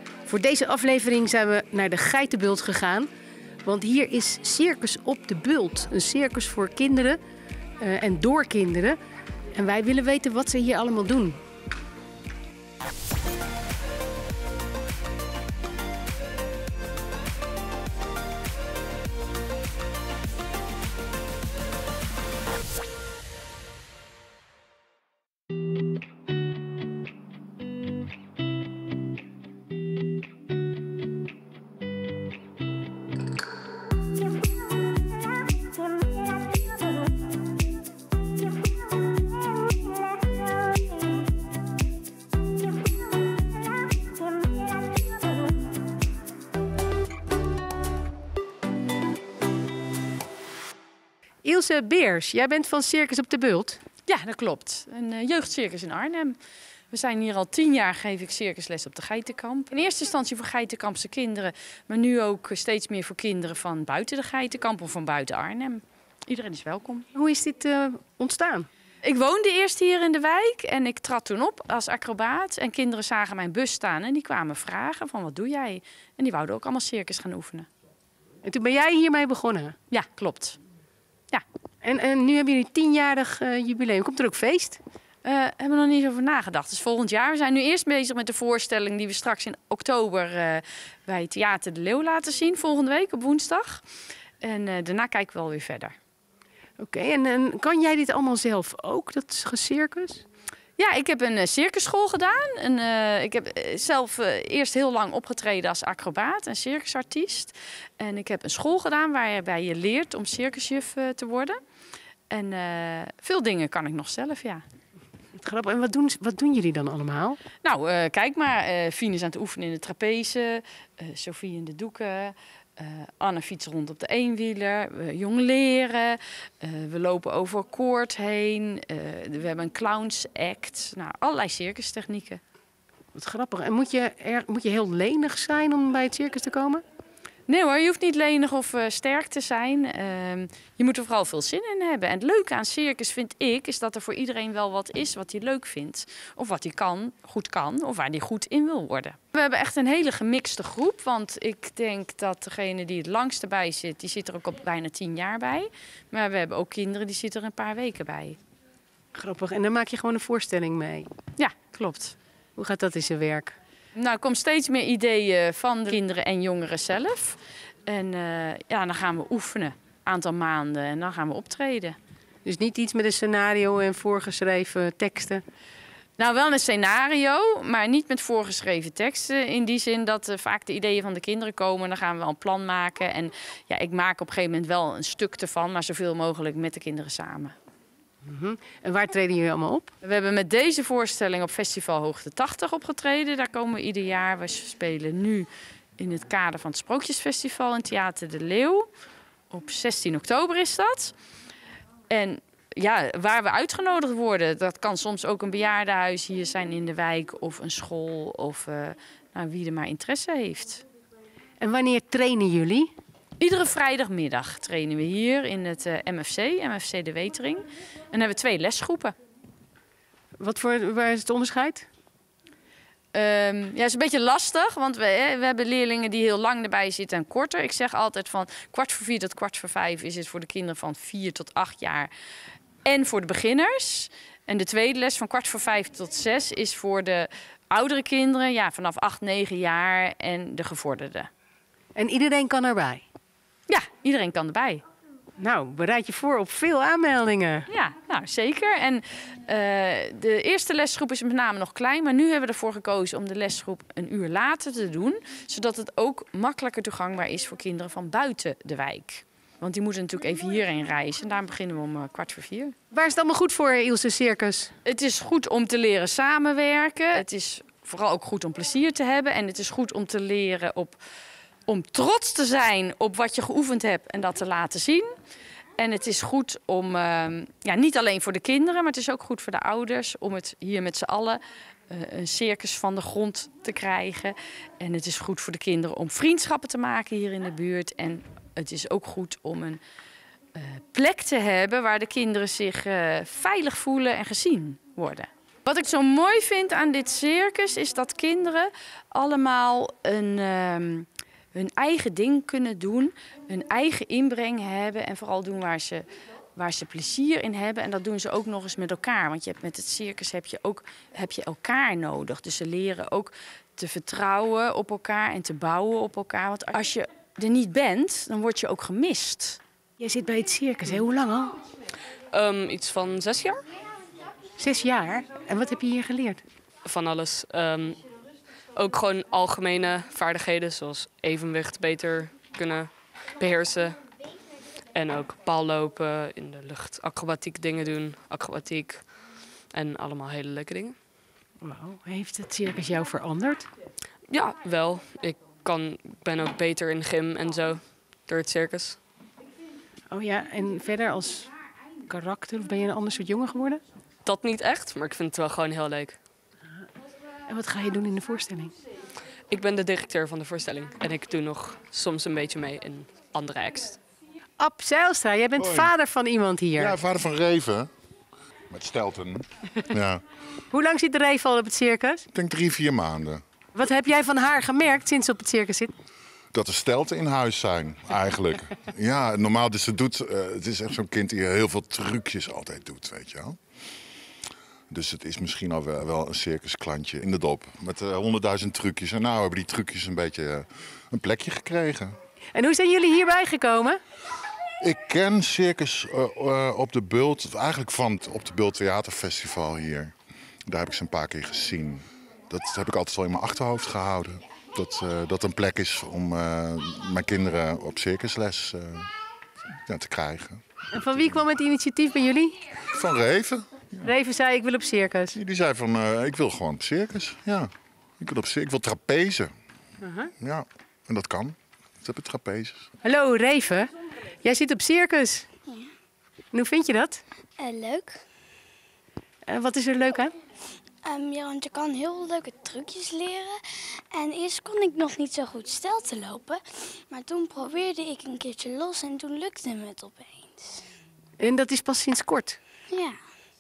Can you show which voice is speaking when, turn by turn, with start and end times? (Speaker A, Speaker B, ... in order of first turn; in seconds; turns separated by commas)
Speaker A: 0.3-3.1, Speaker A: 3.6-7.2, Speaker A: 7.8-9.0, Speaker A: 9.6-11.4, Speaker A: 51.4-53.8, Speaker B: 54.1-56.4, Speaker B: 56.9-67.1, Speaker A: 67.2-68.7, Speaker B: 69.0-77.7, Speaker A: 78.4-79.8, Speaker B: 79.9-80.6, Speaker A: 81.8-84.8, Speaker B: 85.2-93.8, Speaker B: 94.4-95.9, Speaker A: 96.8-100.2, Speaker B: 100.8-111.6, Speaker B: 112.3-114.6, Speaker A: 115.4-117.4, Speaker B: 117.6-132.4, Speaker A: 133.2-136.8, Speaker B: 137.5-158.4, Speaker A: 159.2-161.1, Speaker B: 161.4-162.2, Speaker A: 162.6-163.6, Speaker B: 164.0-172.0, Speaker A: 172.4-175.4, Speaker B: 176.2-187.5, Speaker A: 188.2-189.9, Speaker B: 190.0-198.9, Speaker B: 199.5-201.1, Speaker B: 202.1-210.8, Speaker A: 211.6-212.9, Speaker B: 213.4-219.2, Speaker A: 220.4-221.9, Speaker B: 223.1-232.1, Speaker B: 232.8-241.3, Speaker A: 242.0-243.1, Speaker B: 243.7-244.8, Speaker A: 245.4-247.7, Speaker B: 247.7-262.8, Speaker A: 262.9-264.7, Speaker B: 264.9-271.0, Speaker B: 271.7-275.1, Speaker B: 275.8-289.8, Speaker B: 290.6-319.6, Speaker A: 320.0-321.6, Speaker C: 322.3-323.6, Speaker A: 324.6-326.4, Speaker C: 326.9-328.0, Speaker C: 328.7-334.0, Speaker C: 334.9-339.2, Speaker C: 339.7-341.0, Speaker A: 341.6-343.7, Speaker C: 344.3-349.0, Speaker A: 350.1-351.5, Speaker A: 352.1-353.8, Speaker C: 354.2-356.2, Speaker A: 357.5-358.7, Speaker C: 359.5-364.0, Speaker A: 364.6-367.0, Speaker D: 365.6-365.9, Speaker D: 366.8-367.9, Speaker D: 368.7-370.2, Speaker A: 370.7-372.3, Speaker D: 372.3-373.4, Speaker A: 373.8-375.9, Speaker D: 376.5-383.6, Speaker D: 384.9-392.2, Speaker A: 392.5-394.0, Speaker D: 394.8-400.1, Speaker D: 400.7-409.1, Speaker D: 409.9-410.6, Speaker A: 410.9-412.6, Speaker D: 412.9-414.1, Speaker A: 414.0-415.4, Speaker D: 415.3-419.5, Speaker A: 420.0-420.3, Speaker D: 420.4-422.9, Speaker A: 423.0-423.9, Speaker A: 424.4-425.5, Speaker A: 426.5-427.2, Speaker E: 427.6-428.2, Speaker A: 429.5-430.3, Speaker E: 431.0-440.9, Speaker A: 441.4-442.6, Speaker E: 442.9-443.2